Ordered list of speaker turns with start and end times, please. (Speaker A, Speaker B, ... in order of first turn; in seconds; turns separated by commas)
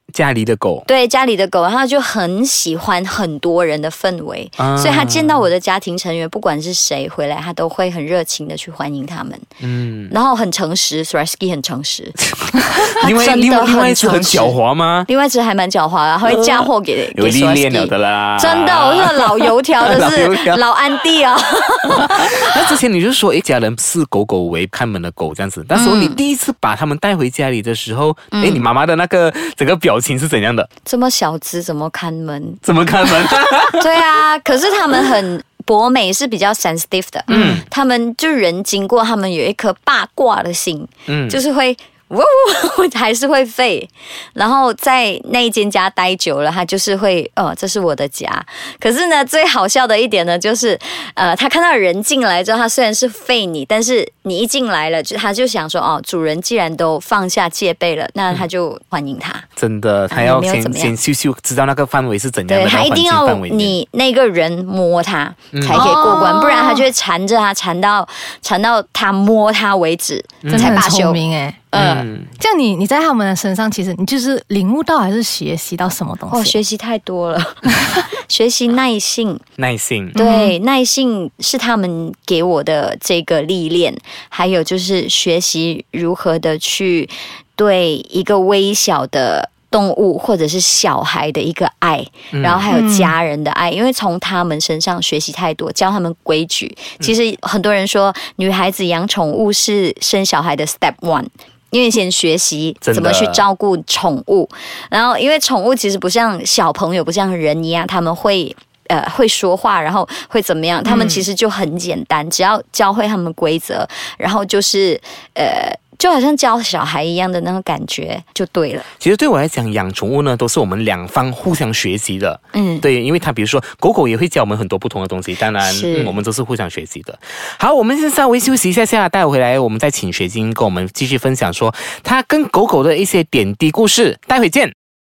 Speaker A: 0.1-0.9, Speaker B: 0.8-9.4, Speaker A: 4.6-5.5, Speaker A: 9.6-10.1, Speaker B: 10.1-22.5, Speaker A: 12.8-15.1, Speaker A: 16.2-20.6, Speaker A: 21.9-30.7, Speaker B: 25.7-26.2, Speaker B: 28.3-28.6, Speaker B: 30.8-32.6, Speaker A: 32.6-33.9, Speaker B: 33.7-59.5, Speaker C: 37.3-37.6, Speaker A: 37.3-37.7, Speaker A: 41.1-41.4, Speaker A: 59.6-63.8, Speaker B: 60.1-60.9, Speaker B: 62.5-71.2, Speaker A: 65.5-66.2, Speaker C: 65.7-66.9, Speaker A: 70.4-70.8, Speaker C: 70.5-76.6, Speaker B: 71.7-72.0, Speaker A: 71.7-72.3, Speaker B: 76.3-79.4, Speaker A: 79.6-80.2, Speaker B: 80.1-118.9, Speaker C: 80.1-80.5, Speaker A: 92.3-92.7, Speaker C: 92.7-93.1, Speaker A: 102.8-103.4, Speaker C: 110.8-111.2, Speaker A: 119.0-134.7, Speaker B: 122.5-122.8, Speaker B: 125.6-126.2